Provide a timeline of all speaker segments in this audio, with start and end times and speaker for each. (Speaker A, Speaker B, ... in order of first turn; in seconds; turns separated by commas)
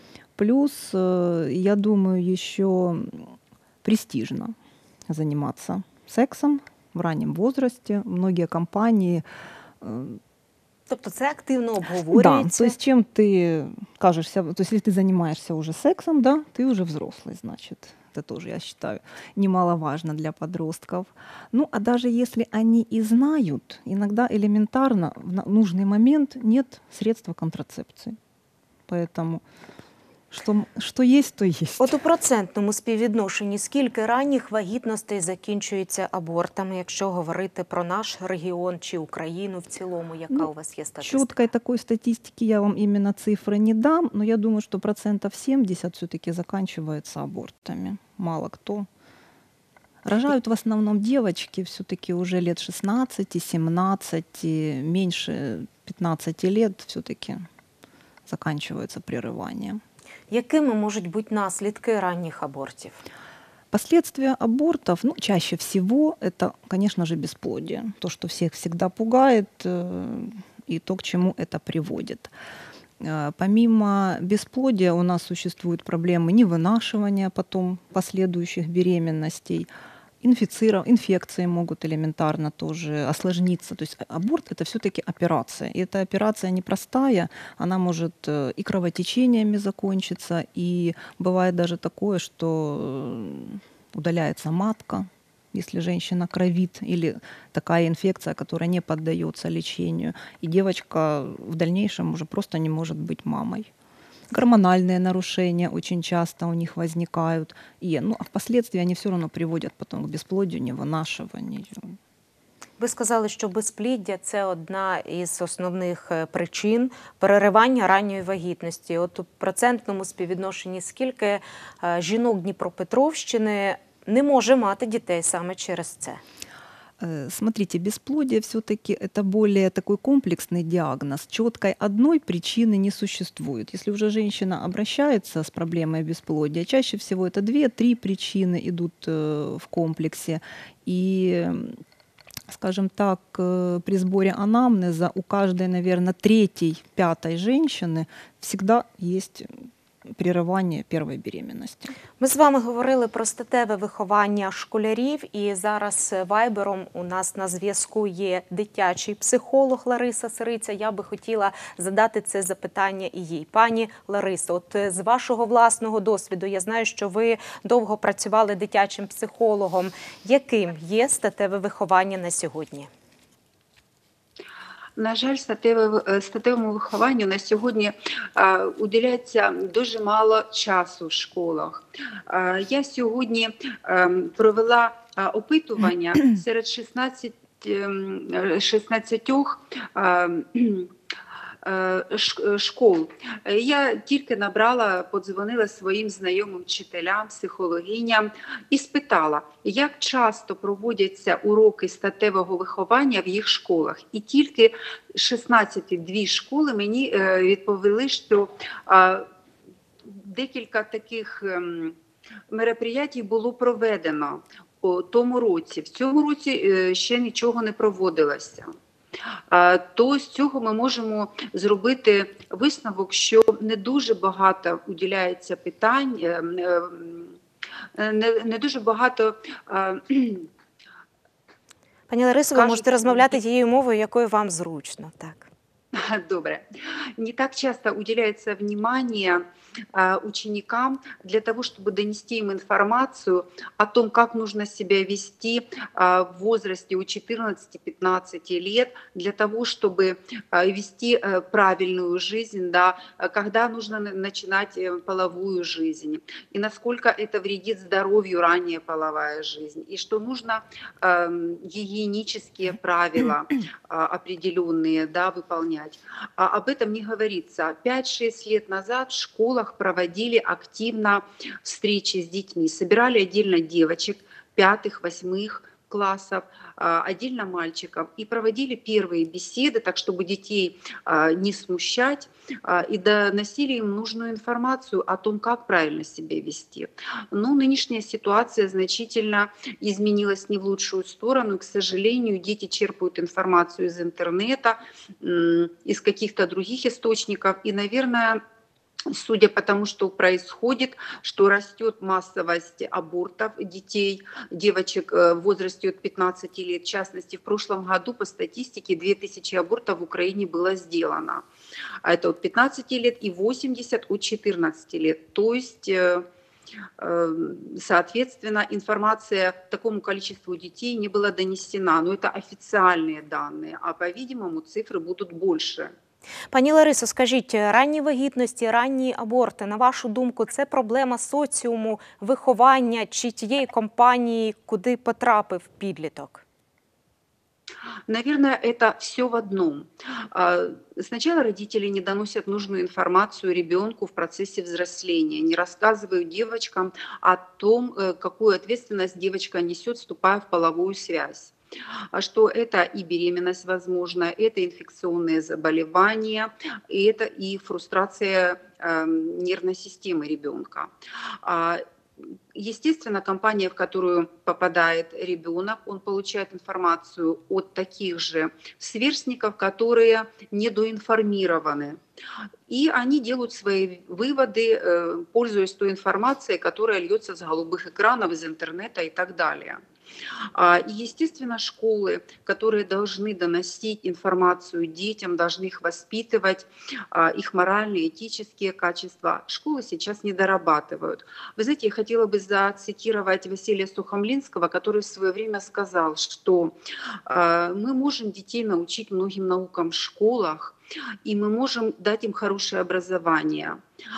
Speaker A: 0.4-3.3, Speaker A: 3.8-4.5, Speaker A: 5.1-9.2, Speaker A: 9.8-10.2, Speaker B: 10.9-12.8, Speaker A: 12.1-28.2, Speaker A: 28.9-29.4, Speaker A: 30.3-31.9, Speaker B: 31.8-41.4, Speaker A: 41.0-48.9, Speaker A: 50.0-57.5, Speaker A: 58.3-59.8, Speaker B: 60.3-63.0, Speaker A: 63.7-72.3, Speaker A: 73.0-79.7, Speaker A: 80.2-103.7, Speaker A: 104.3-112.0, Speaker B: 112.8-126.2, Speaker A: 127.0-141.8, Speaker A: 142.5-149.5, Speaker A: 150.2-151.9, Speaker B: 152.2-172.9, Speaker C: 175.0-190.9, Speaker C: 191.6-209.3, Speaker C: 210.1-212.0, Speaker C: 212.5-218.7, Speaker C: 219.5-227.3, Speaker C: 228.0-230.5, Speaker B: 232.1-235.5, Speaker C: 232.5-233.4, Speaker C: 235.9-236.6, Speaker C: 237.2-298.4, Speaker C: 299.1-311.4, Speaker C: 312.0-316.3, Speaker C: 317.0-325.9, Speaker B: 326.5-336.4, Speaker C: 338.1-351.5, Speaker C: 352.1-360.9, Speaker C: 361.4-361.8, Speaker C: 362.6-372.0, Speaker C: 372.7-379.8, Speaker C: 380.6-396.7, Speaker C: 397.3-403.8